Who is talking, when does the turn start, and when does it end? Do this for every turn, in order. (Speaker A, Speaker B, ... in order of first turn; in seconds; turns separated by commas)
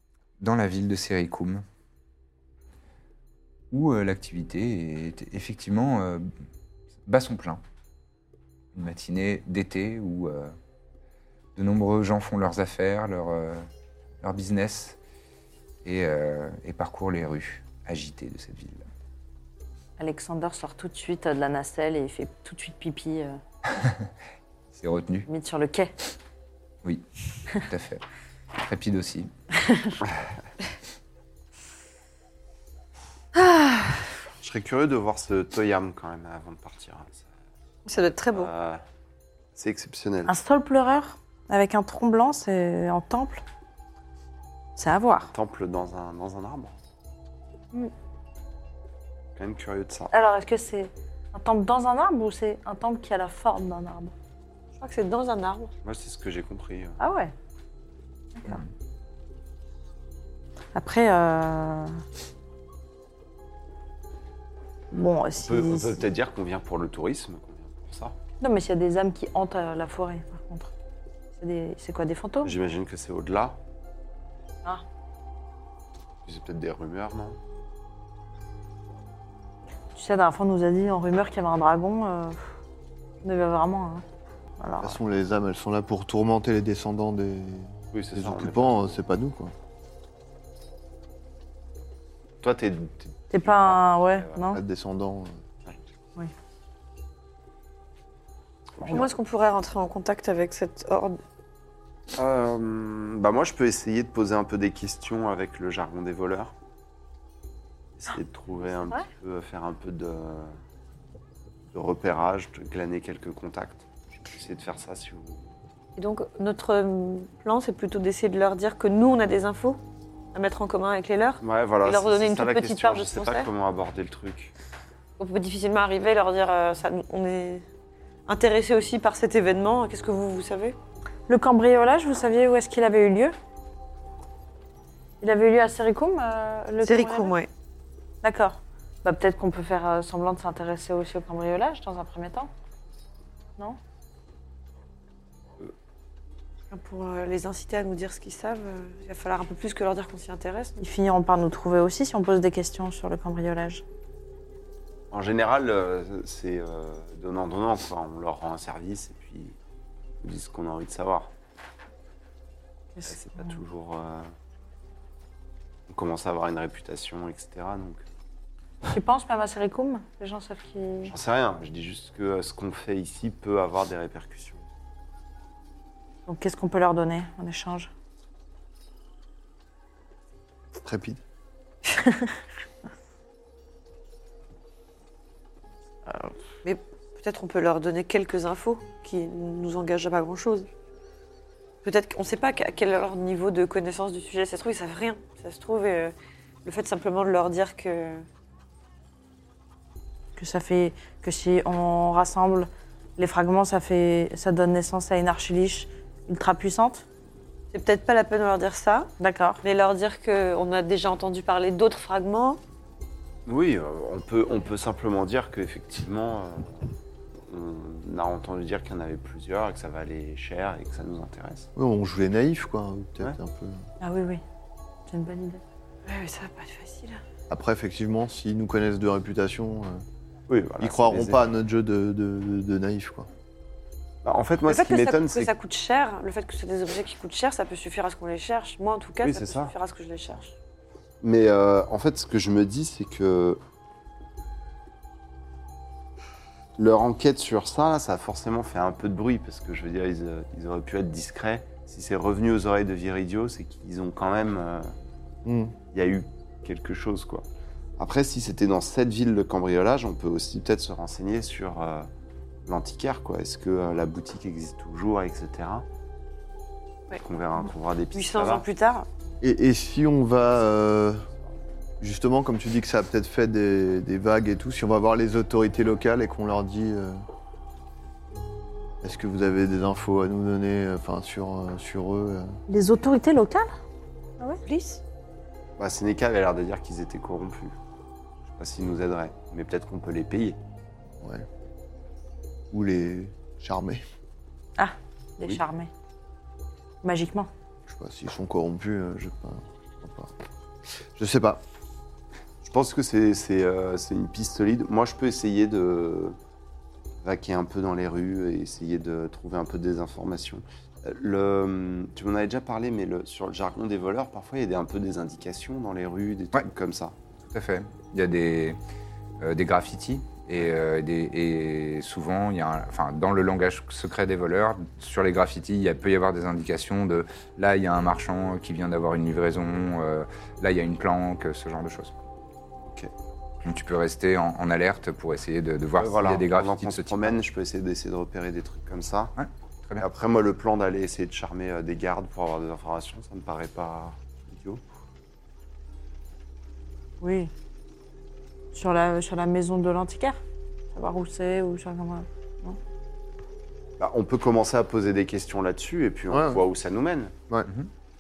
Speaker A: 0.4-1.6, Speaker A: 3.7-6.3, Speaker A: 7.1-7.6, Speaker A: 8.7-10.5, Speaker A: 11.6-13.7, Speaker A: 14.2-15.0, Speaker A: 15.8-18.9, Speaker B: 20.0-23.4, Speaker A: 23.7-24.1, Speaker A: 24.7-25.3, Speaker B: 25.3-25.9, Speaker A: 27.6-28.0, Speaker A: 28.6-29.3, Speaker B: 29.6-30.0, Speaker C: 33.4-34.0, Speaker D: 34.4-37.3, Speaker C: 37.9-38.5, Speaker D: 38.3-38.8, Speaker D: 39.6-40.3, Speaker B: 40.3-43.4, Speaker B: 44.8-45.3, Speaker D: 45.3-46.7, Speaker D: 49.4-50.1, Speaker B: 50.1-54.1, Speaker C: 54.8-55.7, Speaker D: 55.8-57.0, Speaker B: 57.0-57.3, Speaker B: 60.8-62.0, Speaker B: 64.9-66.0, Speaker D: 65.4-68.2, Speaker B: 68.4-70.7, Speaker B: 71.4-72.5, Speaker D: 72.4-73.6, Speaker D: 76.3-77.4, Speaker B: 80.0-82.4, Speaker B: 83.2-84.0, Speaker B: 84.6-85.0, Speaker E: 84.8-89.5, Speaker D: 87.9-88.9, Speaker D: 92.4-94.5, Speaker B: 93.3-94.6, Speaker E: 94.5-95.3, Speaker D: 98.8-99.1, Speaker C: 98.9-101.2, Speaker D: 102.2-106.5, Speaker D: 108.0-110.6, Speaker D: 111.7-115.5, Speaker C: 116.0-119.8, Speaker C: 120.3-123.5, Speaker D: 121.4-124.5, Speaker C: 125.2-127.6, Speaker C: 128.3-130.8, Speaker B: 131.3-133.3, Speaker B: 135.2-137.3, Speaker C: 136.8-137.5, Speaker B: 138.2-142.5, Speaker C: 146.7-150.8, Speaker B: 150.8-153.8, Speaker D: 155.1-159.6, Speaker D: 160.2-161.3, Speaker B: 163.0-163.6, Speaker D: 163.1-164.3, Speaker D: 165.9-168.0, Speaker B: 168.9-171.1, Speaker D: 171.1-174.6, Speaker B: 176.3-177.9, Speaker E: 180.8-181.2, Speaker C: 186.6-190.7, Speaker C: 191.8-196.1, Speaker C: 196.7-198.2, Speaker B: 200.4-207.0, Speaker C: 207.7-209.1, Speaker B: 209.2-209.6, Speaker C: 209.6-212.6, Speaker D: 213.5-216.9, Speaker D: 217.5-221.7, Speaker E: 221.8-223.8, Speaker B: 224.0-224.4, Speaker B: 225.1-225.6, Speaker C: 226.1-227.2, Speaker E: 227.5-230.0, Speaker D: 230.5-231.5, Speaker E: 230.8-233.3, Speaker D: 234.2-235.5, Speaker C: 234.7-240.6, Speaker D: 239.2-239.7, Speaker D: 241.2-243.6, Speaker D: 246.8-254.9, Speaker E: 255.4-255.8, Speaker D: 255.9-257.5, Speaker D: 258.0-262.1, Speaker D: 262.7-265.9, Speaker D: 267.1-268.7, Speaker C: 268.1-269.1, Speaker E: 269.4-271.2, Speaker E: 272.0-277.2, Speaker E: 279.0-282.6, Speaker B: 282.7-283.7, Speaker C: 284.7-285.0, Speaker D: 285.8-287.8, Speaker D: 288.6-290.6, Speaker E: 291.2-291.5, Speaker E: 292.7-294.0, Speaker B: 294.8-295.9, Speaker B: 297.0-297.5, Speaker E: 297.9-300.3, Speaker E: 301.1-301.6, Speaker D: 302.6-306.4, Speaker D: 307.2-317.2, Speaker A: 317.5-318.8, Speaker A: 319.4-332.1, Speaker D: 332.8-333.1, Speaker A: 333.6-337.4, Speaker D: 336.0-339.3, Speaker A: 339.4-340.1, Speaker D: 340.0-344.8, Speaker B: 347.2-347.5, Speaker B: 348.7-350.4, Speaker B: 350.9-352.8, Speaker D: 354.0-357.3, Speaker E: 356.3-356.6